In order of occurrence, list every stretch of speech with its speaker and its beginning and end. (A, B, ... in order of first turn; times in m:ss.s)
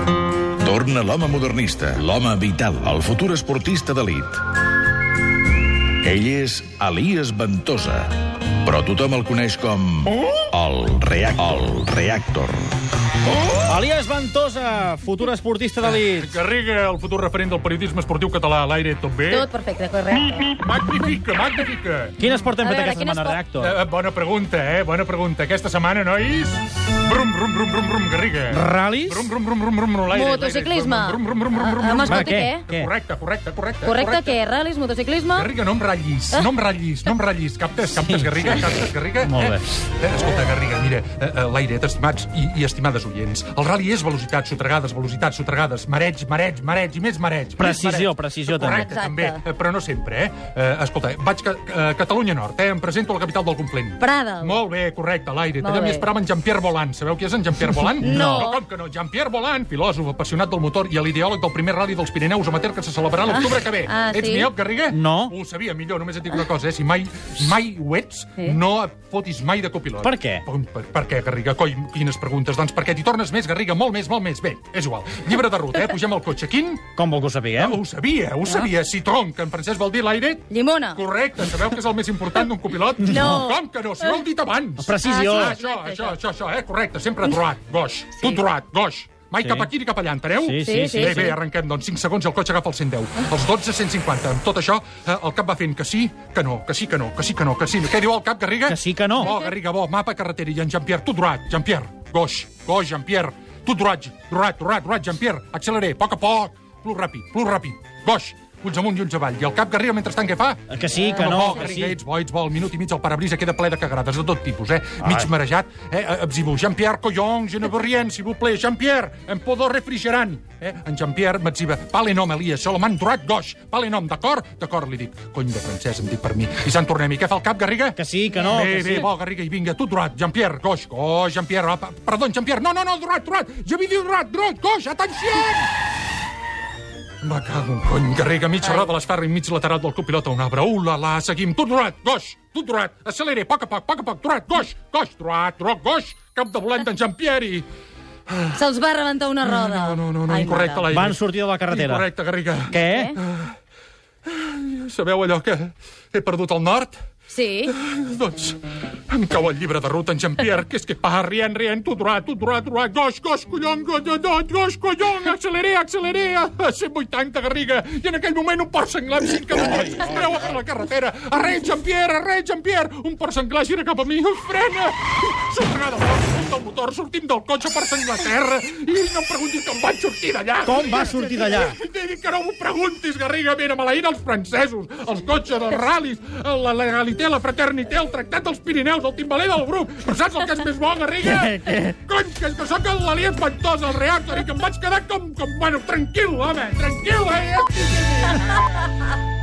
0:00.6-0:04.5 A
0:06.0-0:12.7 A
0:13.7-0:16.3 B
0:15.8-0:19.5 C
0:19.3-0:20.5 D
0:20.4-0:22.2 C
0:22.2-0:23.8 B
0:22.6-0:23.4 D
0:23.5-0:34.4 C
0:28.5-0:29.3 B
0:30.1-0:32.7 D
0:32.1-0:32.9 B
0:33.8-0:35.5 D
0:35.3-1:16.9 C
0:38.0-0:38.6 B
0:39.2-0:39.6 B
0:47.6-0:48.9 B
0:48.6-0:49.4 D
0:54.0-0:54.6 D
0:55.6-0:56.1 D
0:58.0-0:58.6 D
0:58.0-0:58.5 B
1:03.2-1:04.5 D
1:04.9-1:05.3 B
1:10.0-1:10.4 B
1:17.0-1:17.8 B
1:17.6-2:15.7 C
1:20.5-1:21.0 D
1:23.0-1:23.6 D
1:23.0-1:23.4 B
1:24.8-1:25.6 B
1:25.0-1:26.2 D
1:29.4-1:29.7 B
1:30.4-1:31.4 B
1:30.6-1:31.4 D
1:38.7-1:39.3 B
1:50.7-1:52.0 B
1:51.3-1:51.7 D
1:55.0-1:55.3 B
2:08.0-2:09.0 B
2:17.2-2:27.6 C
2:18.6-2:18.9 D
2:28.3-2:28.6 C
2:28.5-2:30.9 D
2:29.4-2:33.6 C
2:30.9-2:32.1 B
2:32.7-2:33.1 B
2:32.8-2:33.2 D
2:34.2-2:37.0 C
2:37.3-2:37.7 D
2:37.7-3:18.9 C
3:00.6-3:01.8 B
3:11.4-3:11.8 B